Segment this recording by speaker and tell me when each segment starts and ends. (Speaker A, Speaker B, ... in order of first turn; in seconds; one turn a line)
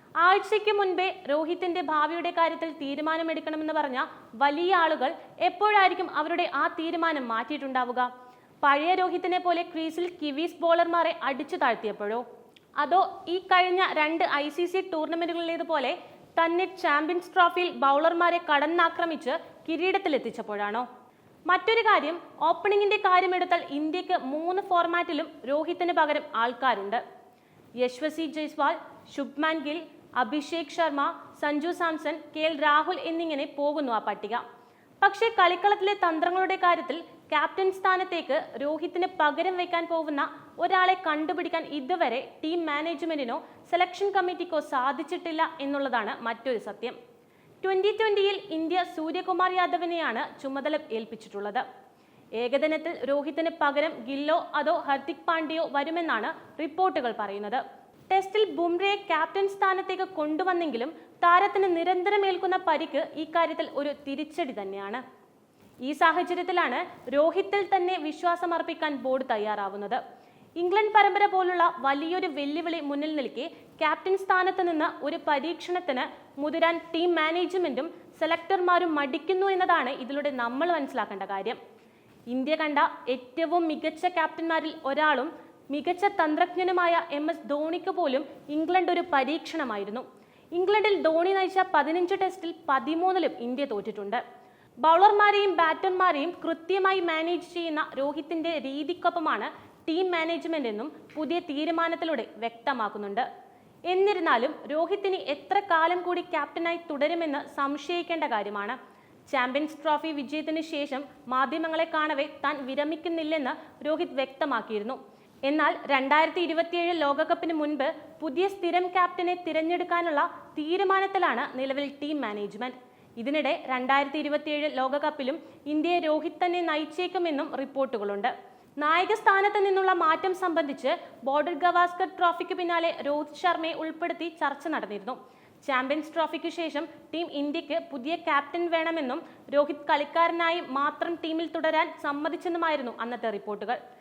Speaker A: 0.2-8.1
Speaker A: 8.6-12.2
Speaker A: 12.8-20.9
Speaker A: 21.5-27.0
Speaker A: 27.8-34.4
Speaker A: 35.0-47.0
Speaker A: 47.6-51.6
Speaker A: 52.4-65.0
Speaker A: 65.8-70.0
Speaker A: 70.6-81.6
Speaker A: 82.3-94.2
Speaker A: 94.8-103.2
Speaker A: 103.9-108.8
Speaker A: 109.3-143.8